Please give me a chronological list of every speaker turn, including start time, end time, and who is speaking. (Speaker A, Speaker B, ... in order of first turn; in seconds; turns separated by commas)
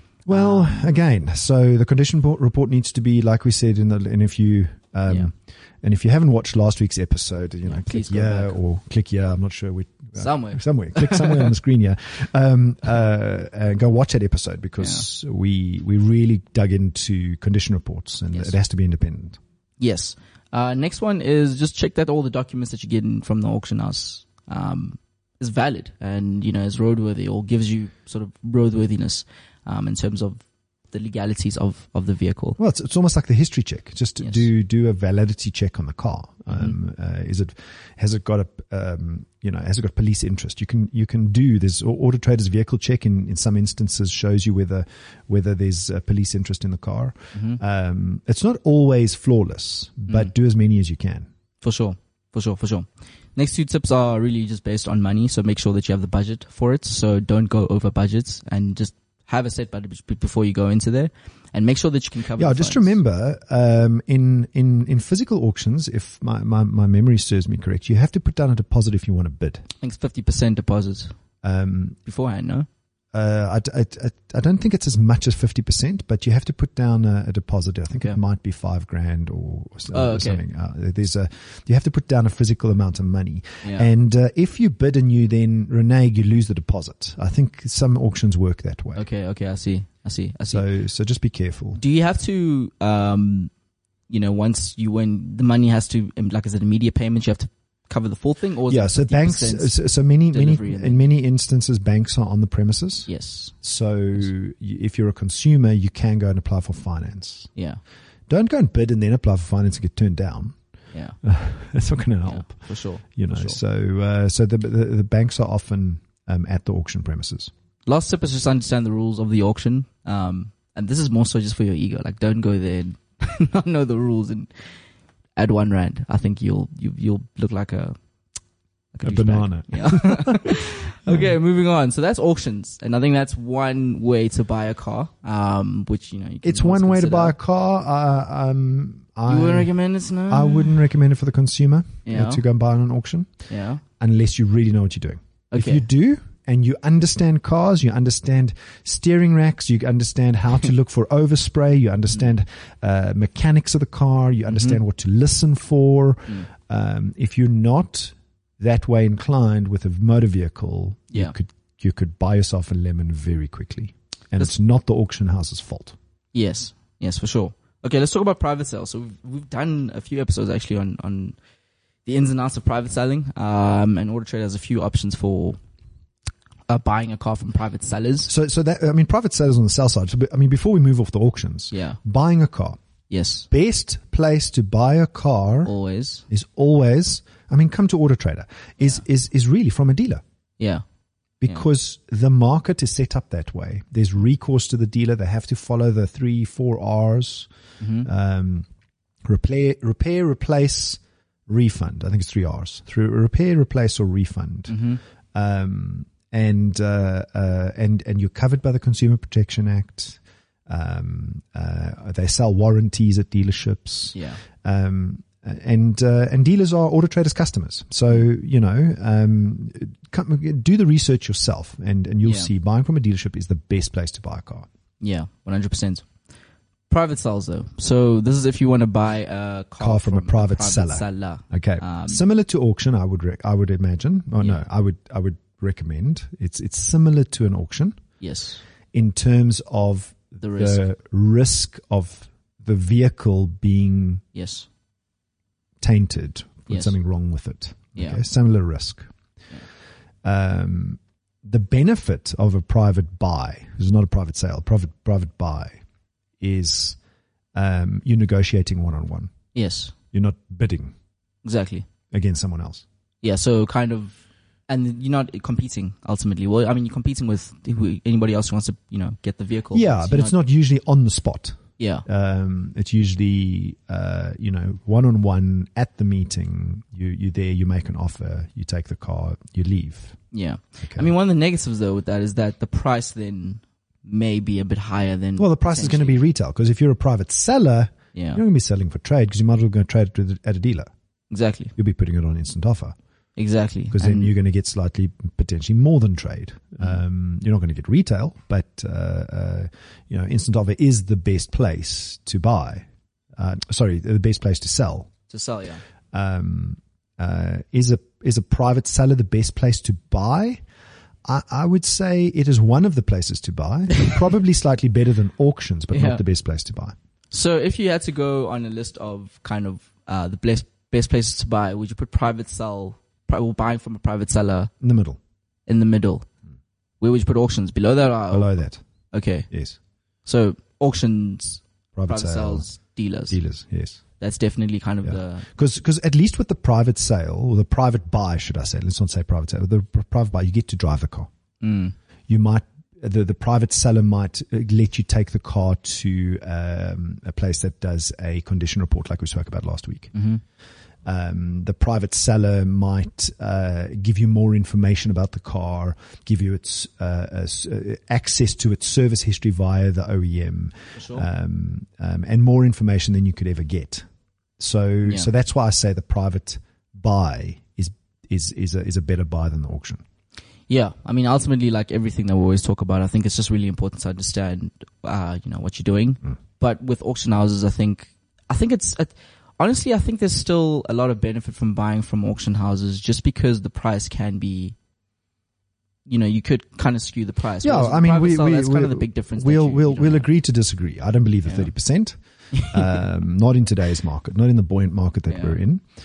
Speaker A: 0.3-19.4, Speaker B: 0.3-0.9, Speaker B: 7.6-8.6, Speaker B: 10.1-11.5, Speaker B: 14.8-15.1, Speaker B: 19.8-32.6, Speaker A: 32.6-51.3, Speaker B: 36.5-36.7, Speaker B: 47.3-47.6, Speaker B: 51.6-63.0, Speaker A: 62.4-69.6, Speaker B: 69.8-71.1, Speaker A: 71.4-72.0, Speaker B: 72.1-72.7, Speaker A: 73.1-89.1, Speaker B: 79.9-80.4, Speaker B: 83.6-83.9, Speaker B: 89.0-90.7, Speaker A: 90.5-91.8, Speaker B: 91.8-93.5, Speaker B: 94.1-99.8, Speaker A: 98.7-103.1, Speaker B: 100.3-101.0, Speaker B: 103.1-103.5, Speaker A: 103.6-107.5, Speaker B: 107.5-107.8, Speaker A: 108.3-110.6, Speaker A: 111.2-117.5, Speaker B: 112.3-113.6, Speaker B: 117.9-124.5, Speaker B: 125.4-128.0, Speaker B: 128.9-137.3, Speaker A: 129.0-131.3, Speaker A: 136.4-139.7, Speaker B: 139.3-140.8, Speaker A: 140.3-143.3, Speaker B: 142.1-142.4, Speaker B: 143.5-143.8, Speaker A: 144.0-165.9, Speaker B: 145.5-145.8, Speaker B: 154.5-154.8, Speaker B: 166.3-171.4, Speaker B: 172.1-175.6, Speaker B: 176.7-178.3, Speaker A: 178.3-182.8, Speaker B: 181.7-182.0, Speaker B: 183.1-183.5, Speaker A: 183.5-185.7, Speaker B: 185.6-186.2, Speaker A: 186.3-190.2, Speaker A: 191.4-197.5, Speaker B: 197.8-198.1, Speaker A: 198.1-198.7, Speaker A: 199.3-204.8, Speaker B: 204.7-205.0, Speaker A: 205.3-224.7, Speaker B: 214.1-214.4, Speaker B: 222.2-222.5, Speaker B: 225.0-226.1, Speaker B: 226.9-232.2, Speaker A: 229.8-238.0, Speaker B: 238.2-238.6, Speaker A: 238.9-244.2, Speaker B: 240.4-240.8, Speaker B: 244.3-244.7, Speaker A: 245.8-249.1, Speaker B: 246.7-246.9, Speaker B: 247.9-248.2, Speaker A: 250.2-255.8, Speaker A: 256.4-257.0, Speaker A: 257.6-259.3, Speaker B: 259.5-259.9, Speaker A: 260.1-260.9, Speaker B: 261.4-261.9, Speaker A: 262.1-262.9, Speaker B: 263.2-270.4, Speaker A: 269.7-280.2, Speaker B: 271.8-272.1, Speaker B: 280.3-286.2, Speaker A: 280.8-281.1, Speaker A: 285.4-290.9, Speaker B: 288.1-288.4, Speaker B: 291.3-291.7, Speaker A: 291.8-292.9, Speaker B: 293.4-294.3, Speaker A: 293.9-305.1, Speaker B: 305.3-305.8, Speaker A: 306.1-310.6, Speaker A: 311.3-316.9, Speaker B: 315.9-316.2, Speaker B: 317.3-324.7, Speaker A: 324.8-325.2, Speaker B: 325.7-326.3, Speaker B: 327.0-329.5, Speaker A: 328.3-328.8, Speaker A: 329.5-329.8, Speaker B: 330.2-333.4, Speaker A: 331.9-332.6, Speaker A: 333.3-334.0, Speaker B: 334.2-335.5, Speaker A: 335.0-341.3, Speaker B: 341.6-341.9, Speaker A: 342.3-350.1, Speaker B: 350.1-350.4, Speaker A: 351.1-364.1, Speaker B: 360.9-361.2, Speaker A: 364.6-370.0, Speaker B: 370.7-384.8, Speaker B: 386.1-390.3, Speaker A: 387.6-395.9, Speaker B: 392.5-392.8, Speaker B: 395.3-395.6